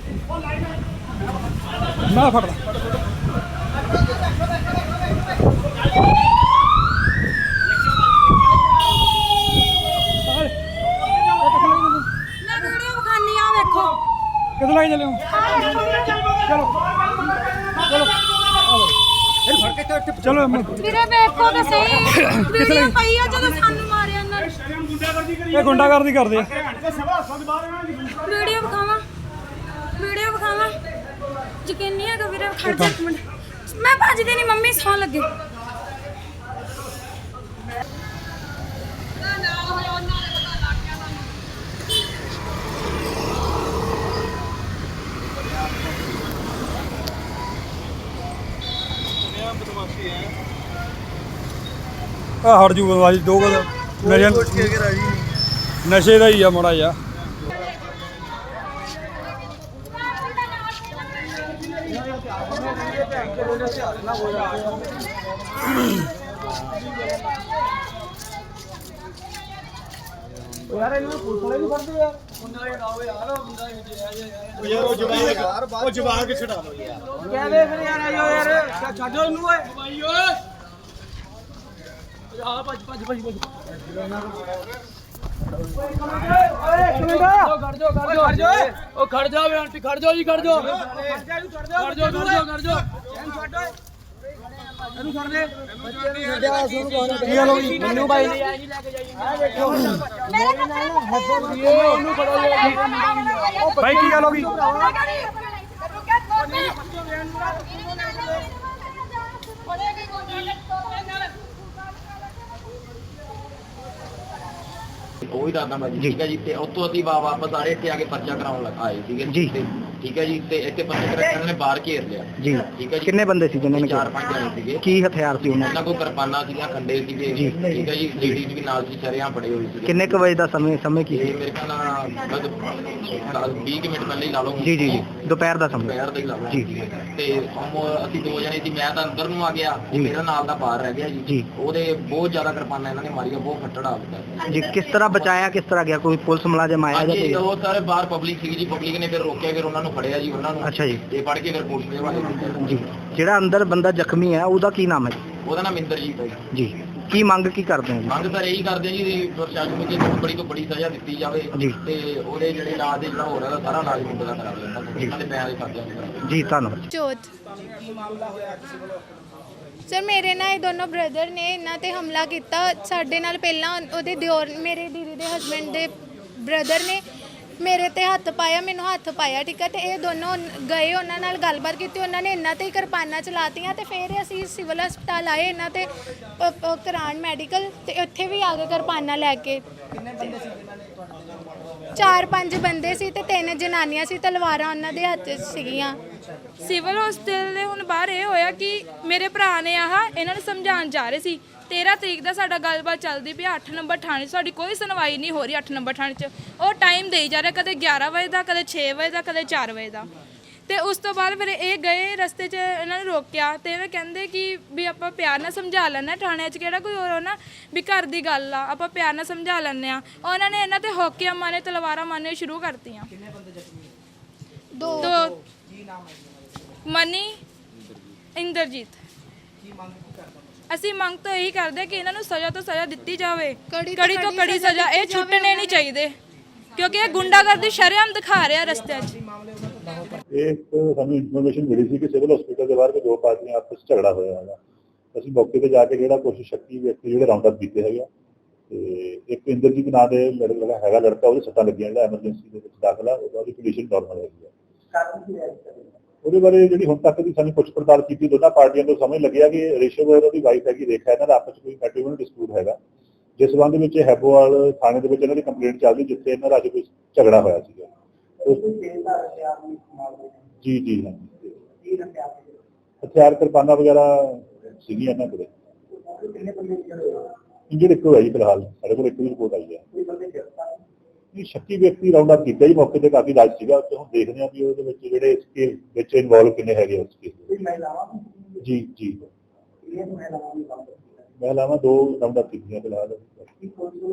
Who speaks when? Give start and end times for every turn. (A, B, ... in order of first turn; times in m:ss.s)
0:02.1-0:02.6 A
0:10.3-0:10.5 A
0:11.4-0:12.0 A
0:12.4-0:14.0 B
0:14.6-0:15.2 A
0:15.3-0:16.3 B
0:20.2-0:20.9 A
0:20.8-0:24.5 B
0:22.1-0:23.0 A
0:25.5-0:26.5 A
0:25.6-0:26.0 B
0:28.2-0:29.0 B
0:30.0-0:30.8 B
0:31.6-0:35.3 B
0:32.6-0:33.0 A
0:52.4-0:54.8 A
0:55.8-0:57.0 A
1:13.5-1:14.4 C
1:17.7-1:19.8 C
1:22.6-1:23.4 C
1:26.9-1:30.7 C
1:31.8-1:32.8 C
1:36.1-1:38.3 C
1:37.3-1:37.9 A
1:37.6-1:38.4 B
1:39.1-1:39.6 C
1:40.3-1:41.4 B
1:42.0-1:43.7 B
1:43.8-1:44.6 A
1:44.6-1:46.7 B
1:47.6-1:48.4 B
1:55.2-2:04.9 D
2:02.4-2:04.0 E
2:04.8-2:05.7 E
2:05.6-2:10.3 D
2:07.3-2:07.6 E
2:07.6-2:07.9 F
2:09.8-2:11.3 E
2:11.1-2:25.3 D
2:14.6-2:15.9 E
2:24.5-2:27.4 E
2:26.9-2:33.1 D
2:30.6-2:31.0 E
2:32.6-2:35.2 E
2:35.4-2:36.5 D
2:36.5-2:38.1 E
2:38.0-2:46.3 D
2:46.2-2:46.8 E
2:46.9-2:47.3 G
2:49.9-2:55.9 G
2:56.4-2:57.0 G
2:57.6-3:05.8 G
3:06.4-3:09.6 G
3:12.0-3:16.0 G
3:16.6-3:30.1 H
3:30.7-3:43.1 H
3:44.8-3:45.1 G
3:45.0-3:45.4 H
3:46.8-3:47.4 H
3:48.3-3:49.0 H
3:50.7-3:56.2 H
3:53.7-3:55.8 G
3:56.8-3:59.2 H
4:00.3-4:04.6 F
4:05.1-4:08.1 F
4:08.7-4:14.5 F
4:16.2-4:22.8 F
4:23.4-4:27.9 F
4:30.6-4:31.6 F
4:33.0-4:35.5 F
4:37.7-4:39.8 F
4:41.3-4:47.5 F
4:48.6-4:49.3 F
4:51.4-4:53.5 F